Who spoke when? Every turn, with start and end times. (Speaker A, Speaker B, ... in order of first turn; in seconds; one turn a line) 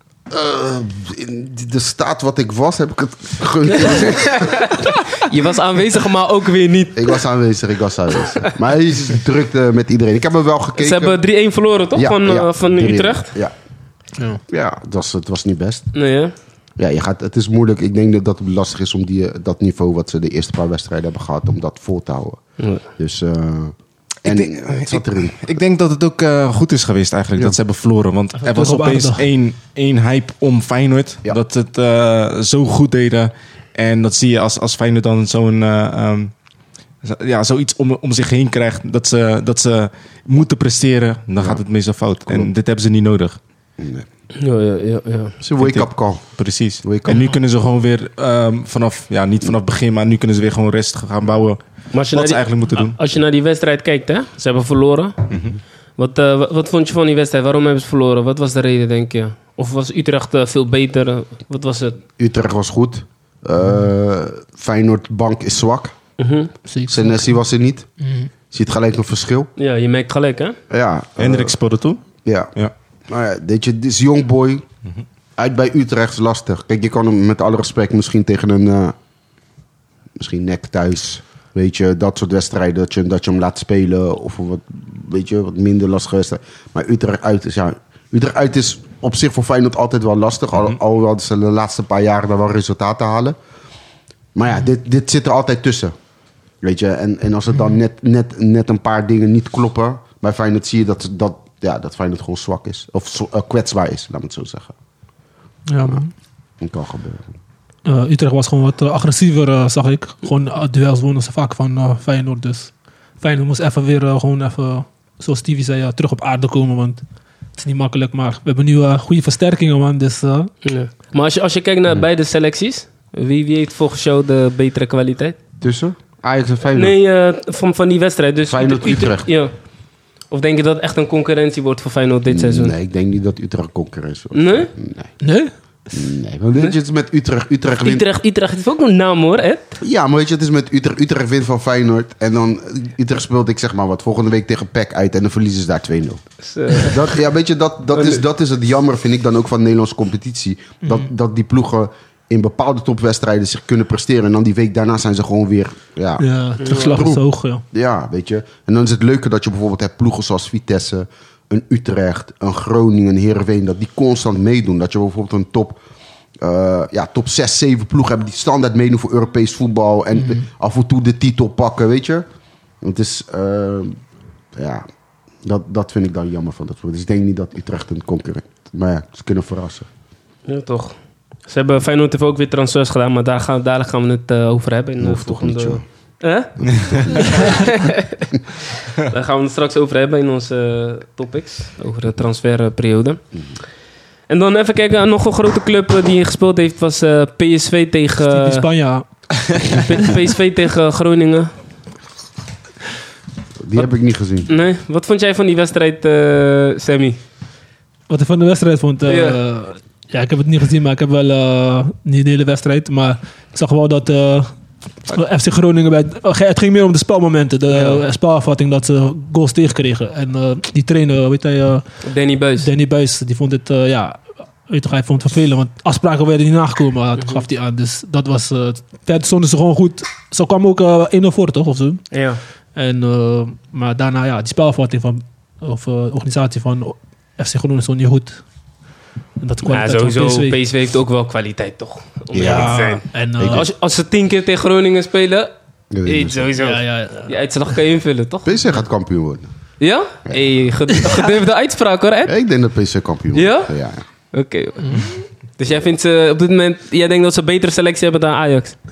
Speaker A: 0.3-4.8
Speaker B: 4.0-7.2
Speaker A: 7.0-11.2
Speaker B: 10.8-13.4
Speaker A: 11.9-13.5
Speaker A: 14.5-15.9
Speaker B: 15.9-16.3
Speaker A: 16.8-25.4
Speaker B: 22.6-22.9
Speaker C: 24.2-36.3
Speaker D: 28.4-29.2
Speaker C: 37.0-43.4
Speaker A: 43.8-44.1
Speaker B: 44.3-45.4
Speaker A: 45.4-46.3
Speaker C: 45.6-53.0
Speaker A: 46.8-47.2
Speaker B: 51.9-55.2
Speaker C: 55.3-55.6
Speaker B: 56.0-62.0
Speaker A: 62.2-66.0
Speaker B: 66.2-66.5
Speaker D: 66.7-67.3
Speaker A: 66.9-67.9
Speaker D: 68.0-68.3
Speaker A: 68.5-69.5
Speaker B: 69.6-70.6
Speaker A: 70.7-71.5
Speaker C: 71.2-72.0
Speaker A: 72.2-72.5
Speaker A: 73.1-74.7
Speaker A: 75.4-79.0
Speaker A: 80.2-93.4
Speaker A: 94.3-95.9
Speaker A: 96.6-104.7
Speaker D: 105.7-106.1
Speaker A: 106.6-107.3
Speaker D: 107.8-117.0
Speaker D: 117.6-120.5
Speaker B: 120.6-125.4
Speaker A: 125.6-127.0
Speaker B: 126.7-129.5
Speaker A: 128.5-129.3
Speaker B: 130.3-132.7
Speaker A: 132.3-135.1
Speaker B: 134.3-134.7
Speaker D: 135.2-135.5
Speaker A: 135.9-138.0
Speaker B: 137.8-139.8
Speaker A: 139.8-146.2
Speaker B: 146.4-147.1
Speaker A: 146.8-165.8
Speaker B: 147.9-148.2
Speaker D: 156.2-157.6
Speaker B: 156.6-157.0
Speaker A: 166.4-172.3
Speaker D: 170.2-170.4
Speaker A: 172.8-174.0
Speaker A: 174.6-174.8
Speaker A: 175.4-179.9
Speaker B: 180.5-180.9
Speaker B: 181.5-188.4
Speaker A: 185.0-185.8
Speaker A: 186.6-187.6
Speaker C: 186.7-187.1
Speaker B: 188.9-193.2
Speaker B: 194.3-198.7
Speaker D: 198.2-199.9
Speaker B: 199.7-201.5
Speaker A: 203.6-204.5
Speaker B: 204.5-207.2
Speaker D: 208.1-214.5
Speaker B: 209.1-209.4
Speaker D: 215.1-221.8
Speaker B: 217.7-218.0
Speaker B: 222.0-222.7
Speaker D: 222.6-232.1
Speaker B: 227.2-227.4
Speaker B: 232.1-232.4
Speaker D: 232.8-238.4
Speaker D: 239.4-240.6
Speaker B: 239.7-245.5
Speaker A: 242.3-242.8
Speaker D: 242.4-243.7
Speaker A: 243.4-243.7
Speaker A: 245.9-246.5
Speaker B: 246.1-248.5
Speaker D: 246.6-247.3
Speaker A: 248.4-249.5
Speaker B: 249.8-252.3
Speaker A: 252.3-254.0
Speaker B: 253.3-253.7
Speaker B: 254.3-258.8
Speaker D: 254.8-255.1